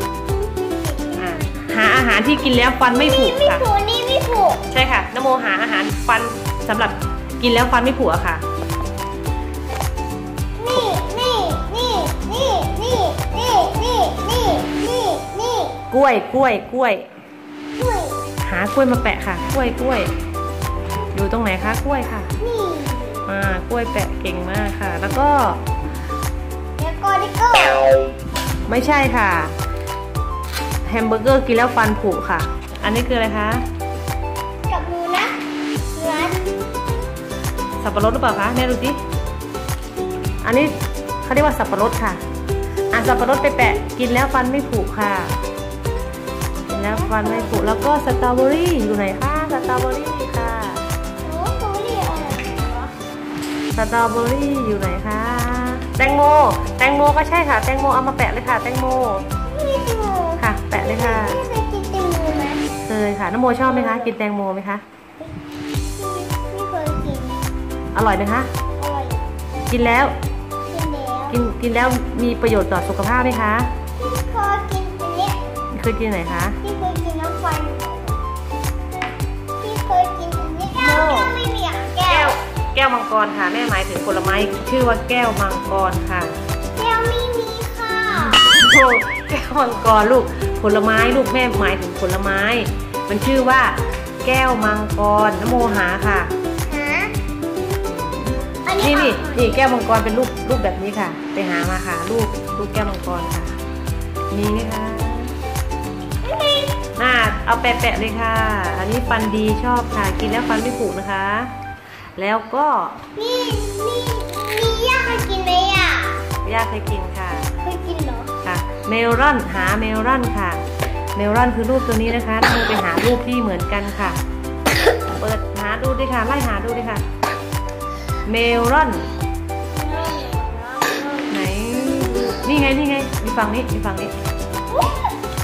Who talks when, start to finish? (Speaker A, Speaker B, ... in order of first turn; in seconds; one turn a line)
Speaker A: 0.3-1.9
Speaker B: 1.1-3.6
Speaker A: 2.9-4.6
Speaker B: 4.7-8.4
Speaker A: 10.6-15.8
Speaker B: 15.9-17.1
Speaker A: 17.8-18.2
Speaker B: 18.4-20.1
Speaker B: 21.1-22.3
Speaker A: 22.4-23.3
Speaker B: 23.2-25.6
Speaker A: 26.8-27.9
Speaker B: 28.7-29.5
Speaker B: 30.9-33.6
Speaker A: 34.7-35.3
Speaker A: 35.9-36.5
Speaker B: 37.8-39.0
Speaker B: 40.4-40.7
Speaker B: 41.2-42.2
Speaker B: 42.9-45.3
Speaker A: 46.7-47.6
Speaker B: 46.7-50.8
Speaker A: 51.2-52.9
Speaker B: 53.7-59.2
Speaker A: 59.4-62.6
Speaker B: 60.4-61.4
Speaker B: 62.8-64.8
Speaker A: 63.6-64.1
Speaker A: 65.9-67.4
Speaker B: 67.9-68.5
Speaker A: 68.8-69.2
Speaker B: 69.7-70.1
Speaker A: 70.7-71.4
Speaker B: 71.3-73.7
Speaker A: 74.0-75.6
Speaker B: 75.7-76.6
Speaker A: 76.6-78.2
Speaker A: 79.6-82.4
Speaker B: 80.8-81.3
Speaker B: 82.0-86.3
Speaker A: 86.8-88.5
Speaker B: 88.1-96.3
Speaker A: 96.6-97.1
Speaker B: 97.8-103.5
Speaker A: 98.7-99.5
Speaker B: 104.3-105.3
Speaker A: 106.2-106.8
Speaker B: 106.9-111.5
Speaker B: 112.2-113.0
Speaker A: 113.2-116.3
Speaker B: 116.4-117.5
Speaker A: 117.6-118.3
Speaker B: 118.4-120.6
Speaker B: 121.2-124.2
Speaker B: 125.2-127.0
Speaker B: 128.2-129.1
Speaker A: 129.7-131.3
Speaker B: 131.3-134.1
Speaker A: 131.9-132.4
Speaker A: 134.7-135.1